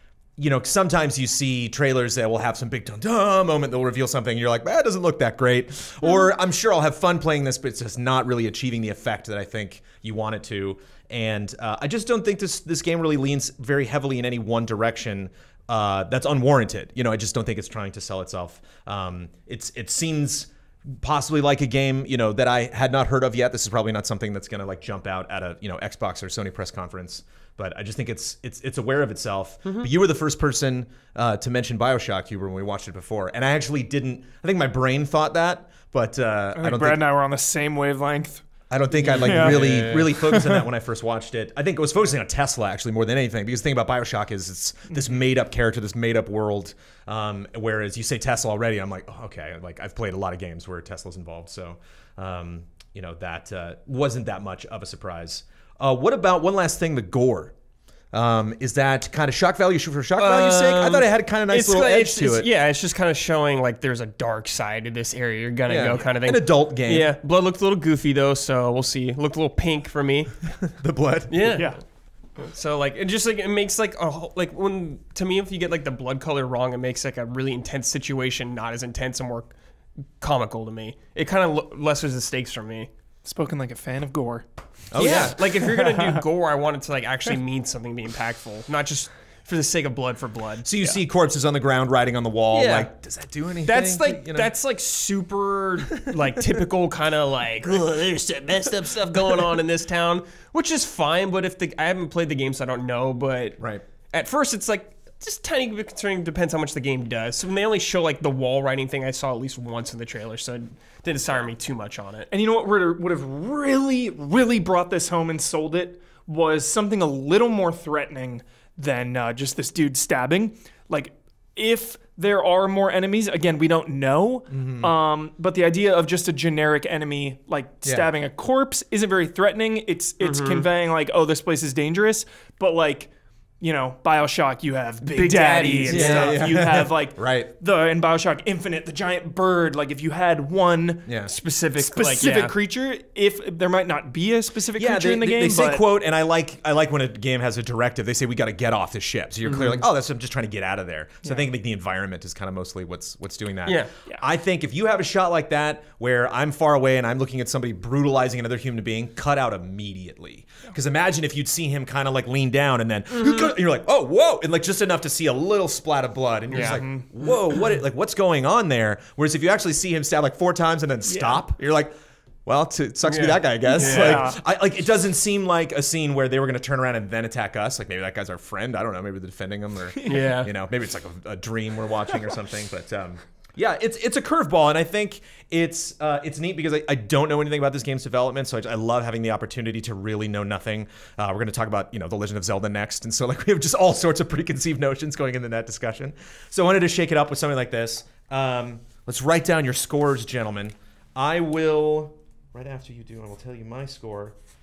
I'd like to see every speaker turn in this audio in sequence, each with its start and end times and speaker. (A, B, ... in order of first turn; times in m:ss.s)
0:00.4-0:37.0 A
0:36.6-0:38.4 B
0:38.7-0:57.5 A
0:39.0-0:40.1 C
0:39.1-0:40.6 B
0:58.1-1:02.5 A
1:00.2-1:10.4 C
1:05.7-1:07.1 A
1:10.8-1:11.6 A
1:11.3-1:11.7 C
1:11.5-1:11.8 B
1:12.4-1:19.5 C
1:20.2-1:22.9 C
1:23.2-1:24.4 B
1:24.9-1:25.5 A
1:25.0-1:30.7 C
1:30.6-1:34.5 A
1:32.5-1:32.9 C
1:33.6-1:52.3 C
1:35.9-1:36.5 A
1:37.6-1:39.6 A
1:43.6-1:43.8 A
1:52.3-2:13.1 B
2:04.5-2:04.9 A
2:10.2-2:10.7 C
2:13.6-2:21.1 B
2:15.0-2:16.4 C
2:15.9-2:17.5 A
2:21.1-2:21.3 A
2:21.3-2:22.5 C
2:21.8-2:25.8 B
2:24.8-2:51.9 A
2:29.5-2:29.8 C
2:43.1-2:43.5 C
2:46.5-2:46.8 C
2:46.6-2:47.1 B
2:51.1-2:51.4 B
2:52.5-3:24.4 A
2:53.1-2:54.3 C
2:53.7-2:54.4 B
3:00.1-3:00.5 C